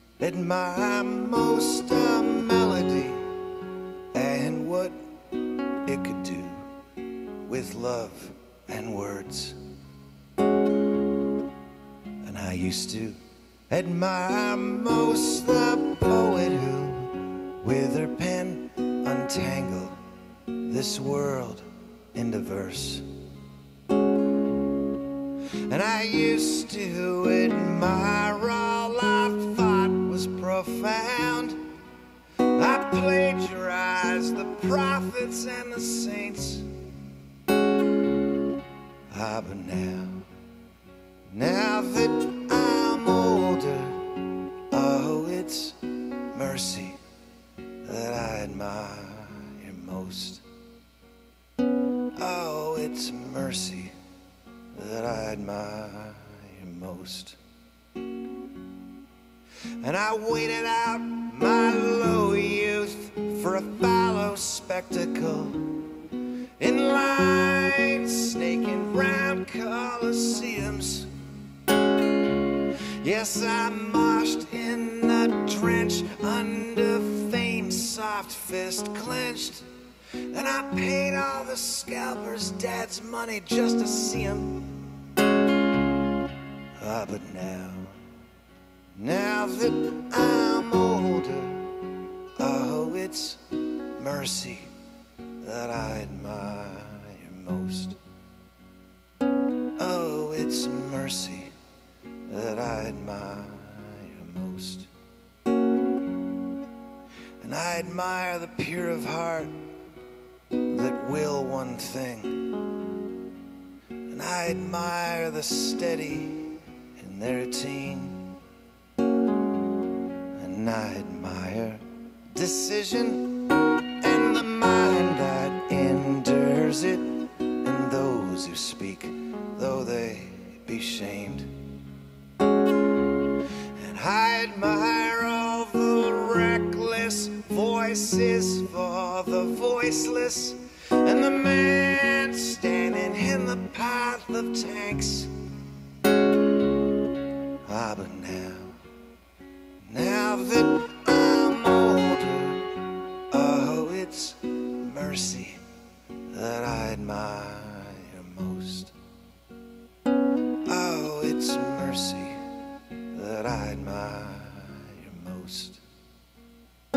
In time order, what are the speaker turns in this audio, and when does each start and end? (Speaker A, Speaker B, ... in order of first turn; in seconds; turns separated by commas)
Speaker A: 0.2-3.3, Speaker A: 4.1-5.0, Speaker A: 5.8-6.7, Speaker A: 7.5-9.6, Speaker A: 12.2-20.0, Speaker A: 20.6-23.1, Speaker A: 25.6-31.6, Speaker A: 32.4-36.7, Speaker A: 39.1-40.3, Speaker A: 41.3-47.0, Speaker A: 47.8-50.4, Speaker A: 52.1-53.9, Speaker A: 54.7-57.4, Speaker A: 59.8-65.9, Speaker A: 66.6-71.1, Speaker A: 72.7-79.7, Speaker A: 80.2-85.0, Speaker A: 86.8-88.0, Speaker A: 88.9-91.8, Speaker A: 92.3-93.4, Speaker A: 93.9-94.7, Speaker A: 95.4-98.0, Speaker A: 99.8-101.5, Speaker A: 102.2-104.9, Speaker A: 107.4-109.6, Speaker A: 110.7-112.5, Speaker A: 114.1-118.3, Speaker A: 120.3-131.5, Speaker A: 133.7-145.3, Speaker A: 147.6-148.8, Speaker A: 149.8-155.6, Speaker A: 156.3-158.9, Speaker A: 160.6-162.4, Speaker A: 163.1-165.8